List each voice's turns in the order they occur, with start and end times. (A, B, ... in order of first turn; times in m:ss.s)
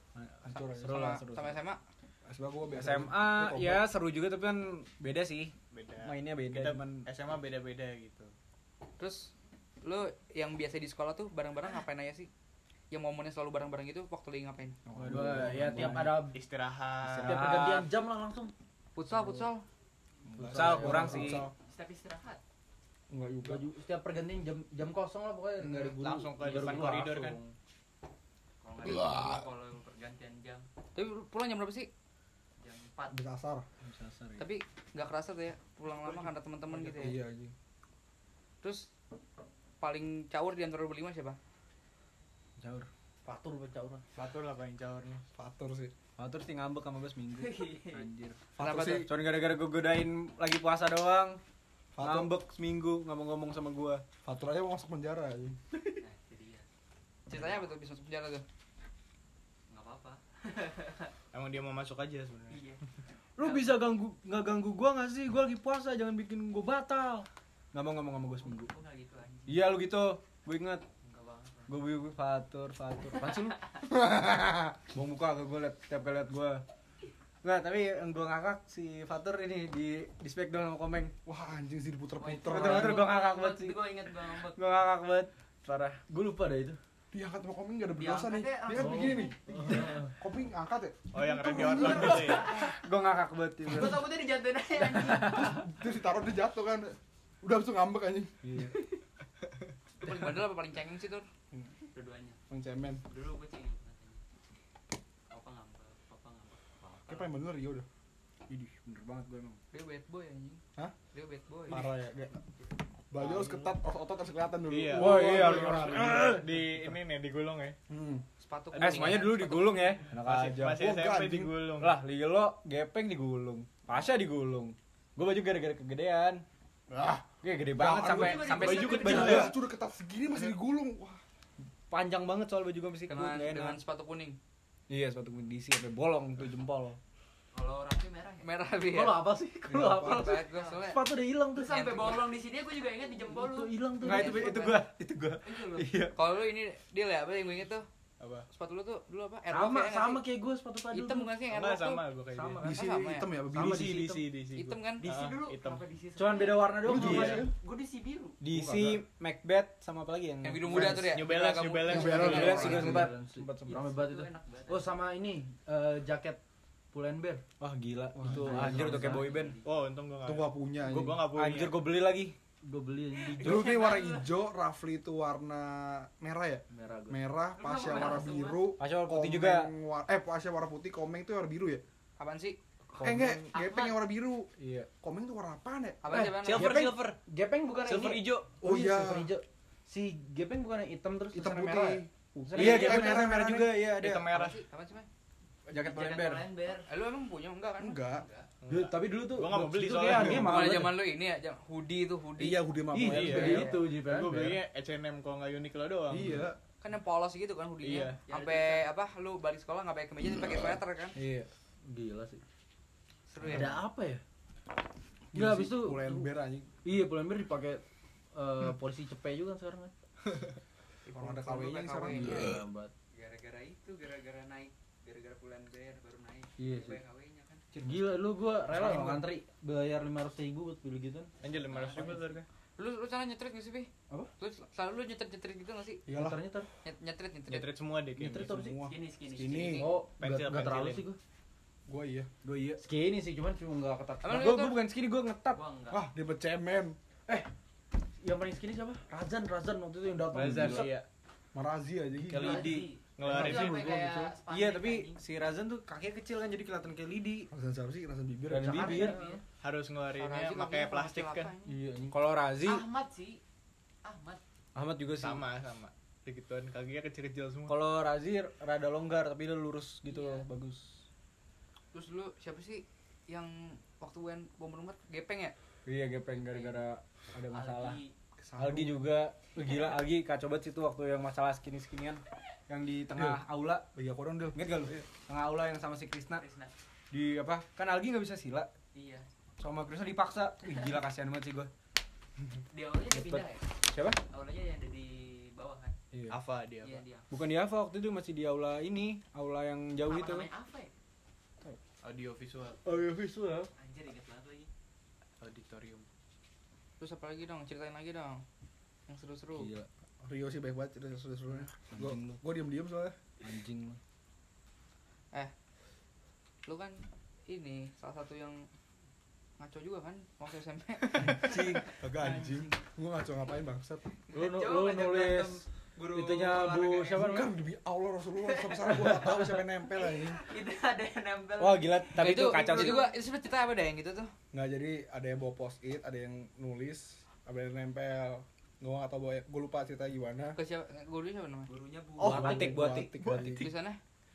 0:00.1-0:01.5 A
0:00.8-0:01.8 B
0:02.2-0:03.8 C
0:02.7-0:07.0 A
0:05.7-0:08.3 D
0:09.0-0:09.3 B
0:09.8-0:12.3 B
0:12.9-0:14.8 B
0:14.9-0:15.6 C
0:15.0-0:16.1 A
0:15.0-0:16.4 E
0:16.3-0:17.5 D
0:17.1-0:18.5 E
0:17.2-0:17.9 A
0:19.0-0:19.6 B
0:20.2-0:21.5 C
0:20.4-0:21.4 E
0:20.5-0:21.5 A
0:21.6-0:22.4 F
0:23.1-0:23.6 C
0:23.4-0:27.4 E
0:25.6-0:25.9 C
0:26.0-0:27.4 D
0:28.6-0:30.7 F
0:30.9-0:31.9 B
0:32.6-0:33.2 F
0:33.1-0:33.6 C
0:33.8-0:34.4 E
0:34.4-0:37.2 B
0:37.0-0:37.5 C
0:38.6-0:38.9 B
0:39.8-0:41.4 B
0:42.6-0:42.9 A
0:43.2-0:44.0 E
0:44.1-0:45.2 D
0:45.4-0:45.9 C
0:46.2-0:51.4 A
0:47.3-0:48.0 F
0:48.6-0:49.1 C
0:48.6-0:49.0 B
0:52.0-0:52.3 C
0:52.0-0:54.0 A
0:54.2-0:55.6 C
0:56.0-0:56.7 F
0:57.3-0:58.4 B
0:59.7-1:01.1 F
1:01.3-1:02.7 D
1:02.5-1:02.8 F
1:03.4-1:03.8 F
1:03.4-1:08.7 A
1:08.4-1:09.8 F
1:09.5-1:10.8 A
1:11.0-1:11.7 F
1:11.7-1:13.5 A
1:13.1-1:13.5 E
1:13.8-1:14.8 C
1:14.9-1:16.6 A
1:17.4-1:21.1 A
1:21.2-1:23.1 C
1:22.2-1:24.6 F
1:22.5-1:26.1 A
1:26.1-1:26.8 E
1:27.1-1:32.7 C
1:27.9-1:29.8 F
1:28.8-1:30.1 E
1:31.1-1:32.5 D
1:32.2-1:32.7 F
1:32.5-1:34.1 A
1:33.7-1:35.6 F
1:35.1-1:38.4 C
1:38.4-1:38.7 A
1:40.0-1:41.2 B
1:41.9-1:42.4 F
1:42.5-1:43.0 C
1:43.0-1:44.2 F
1:45.3-1:47.3 F
1:47.0-1:47.8 C
1:48.5-1:49.6 A
1:49.7-1:50.6 B
1:51.1-1:51.9 B
1:51.7-1:52.4 C
1:53.1-1:56.5 C
1:53.2-1:53.6 D
1:54.7-1:57.8 D
1:54.9-1:56.2 A
1:57.9-1:58.2 C
1:58.4-2:00.0 B
1:58.7-2:01.0 A
1:58.8-1:59.1 D
2:00.2-2:02.0 D
2:00.8-2:01.6 C
2:01.8-2:06.4 A
2:06.9-2:07.2 D
2:07.4-2:09.5 A
2:07.7-2:11.2 C
2:08.0-2:09.5 F
2:08.5-2:09.5 D
2:11.6-2:13.8 A
2:13.1-2:14.4 B
2:14.9-2:17.0 A
2:17.5-2:18.5 F
2:18.4-2:19.3 B
2:18.9-2:22.0 E
2:19.7-2:20.3 C
2:20.0-2:21.0 B
2:20.5-2:20.8 F
2:21.5-2:24.8 F
2:21.7-2:22.2 B
2:23.3-2:24.6 E
2:24.0-2:26.1 A
2:25.4-2:26.0 F
2:26.1-2:27.9 B
2:28.2-2:28.5 D
2:28.5-2:30.2 B
2:29.5-2:31.3 E
2:30.9-2:32.0 B
2:31.4-2:32.6 D
2:32.3-2:32.8 E
2:32.6-2:34.1 C
2:32.7-2:33.3 B
2:33.5-2:35.8 D
2:33.8-2:34.2 E
2:34.5-2:35.0 B
2:35.0-2:38.4 F
2:36.2-2:37.1 A
2:36.8-2:37.5 E
2:36.8-2:37.5 C
2:37.0-2:37.4 D
2:38.4-2:41.1 A
2:38.5-2:39.0 E
2:40.4-2:43.0 B
2:40.7-2:41.2 E
2:41.1-2:42.7 D
2:41.9-2:43.1 C
2:41.9-2:43.8 A
2:42.1-2:46.4 E
2:43.7-2:45.0 F
2:46.9-2:47.4 E
2:47.6-2:49.6 A
2:48.1-2:48.8 C
2:48.2-2:49.4 E
2:48.5-2:49.7 F
2:49.6-2:51.8 D
2:50.2-2:51.3 C
2:51.3-2:52.4 A
2:52.6-2:53.8 E
2:53.1-2:54.4 F
2:53.4-3:01.8 C
2:56.7-2:57.2 E
2:57.6-2:58.6 F
2:58.8-2:59.7 A
3:02.2-3:02.6 B
3:03.0-3:06.0 C
3:03.0-3:03.3 A
3:03.0-3:03.4 E
3:03.6-3:04.0 F
3:04.6-3:04.9 A
3:06.0-3:06.7 B
3:06.1-3:07.0 A
3:06.4-3:07.0 D
3:06.5-3:11.6 E
3:07.8-3:08.3 A
3:07.9-3:08.4 F
3:08.6-3:09.4 C
3:11.3-3:13.8 C
3:11.4-3:12.0 A
3:12.5-3:13.2 E
3:12.5-3:14.3 A
3:13.9-3:14.6 D
3:14.3-3:15.0 B
3:15.7-3:16.9 F
3:15.7-3:16.5 A
3:16.9-3:18.0 B
3:17.8-3:18.2 C
3:18.1-3:18.5 F
3:18.6-3:20.5 D
3:18.7-3:21.0 E
3:20.1-3:20.6 C
3:20.3-3:22.6 B
3:22.4-3:23.7 C
3:22.9-3:24.6 E
3:23.0-3:26.4 D
3:26.1-3:26.6 C
3:26.8-3:31.2 B
3:27.8-3:28.2 D
3:28.3-3:28.9 F
3:31.2-3:32.4 E
3:33.3-3:33.8 B
3:33.4-3:34.2 E
3:35.3-3:36.3 E
3:35.3-3:36.7 C
3:36.8-3:37.8 E
3:38.3-3:39.9 E
3:41.0-3:42.5 B
3:41.1-3:42.6 C
3:42.1-3:42.9 E
3:43.1-3:47.7 F
3:46.6-3:47.0 E
3:47.8-3:51.3 E
3:48.8-3:49.2 C
3:51.4-3:52.5 D
3:51.6-3:52.3 F
3:52.8-3:56.0 B
3:56.1-3:56.4 C
3:56.1-3:56.7 E
3:56.8-3:57.7 B
3:57.5-3:58.6 D
3:58.2-3:58.8 E
3:58.3-3:59.9 C
3:58.9-3:59.9 F
3:59.7-4:01.2 E
4:00.1-4:01.0 D
4:01.9-4:02.3 C
4:02.4-4:02.8 A
4:02.8-4:04.4 E
4:04.2-4:04.8 B
4:04.2-4:05.6 A
4:05.5-4:06.0 F
4:05.9-4:07.0 C
4:08.2-4:10.9 E
4:10.3-4:10.9 A
4:10.5-4:11.0 D
4:11.5-4:12.8 C
4:12.2-4:14.3 E
4:12.3-4:12.8 A
4:12.4-4:15.2 F
4:13.2-4:13.9 D
4:13.6-4:14.0 C
4:14.5-4:17.5 A
4:17.5-4:19.0 C
4:18.5-4:19.2 E
4:18.8-4:19.4 B
4:18.8-4:19.4 F
4:19.6-4:21.5 D
4:20.2-4:21.7 B
4:21.6-4:22.2 E
4:22.1-4:22.8 A
4:22.6-4:23.4 F
4:24.0-4:24.4 F
4:24.7-4:25.4 A
4:25.2-4:27.8 D
4:27.7-4:31.0 A
4:30.1-4:30.5 F
4:31.9-4:35.5 B
4:35.8-4:38.0 A
4:36.3-4:36.8 F
4:37.5-4:38.1 F
4:38.4-4:39.0 C
4:38.6-4:43.8 A
4:43.1-4:43.4 C
4:43.9-4:45.0 C
4:44.5-4:46.4 A
4:46.4-4:46.7 F
4:47.1-4:48.7 A
4:48.9-4:49.3 F
4:49.6-4:51.7 A
4:52.7-4:56.0 F
4:53.1-4:54.2 A
4:56.3-4:57.0 D
4:56.8-4:57.3 F
4:57.3-5:00.5 A
5:00.0-5:00.9 F
5:02.0-5:02.8 D
5:02.8-5:03.7 E
5:03.8-5:04.7 F
5:05.4-5:06.1 D
5:07.0-5:08.4 B
5:09.1-5:09.7 B
5:09.5-5:09.9 E
5:10.2-5:13.2 C
5:13.4-5:14.0 A
5:13.5-5:14.0 E
5:16.6-5:18.7 B
5:19.6-5:21.6 B
5:21.3-5:24.2 C
5:24.3-5:27.2 F
5:24.3-5:27.5 E
5:27.1-5:30.4 C
5:28.4-5:29.1 F
5:28.9-5:29.6 E
5:29.9-5:32.2 F
5:31.6-5:33.1 A
5:32.2-5:34.3 B
5:34.5-5:40.6 C
5:40.5-5:41.7 B
5:41.7-5:42.8 F
5:42.2-5:43.6 A
5:42.2-5:43.7 C
5:43.6-5:44.0 B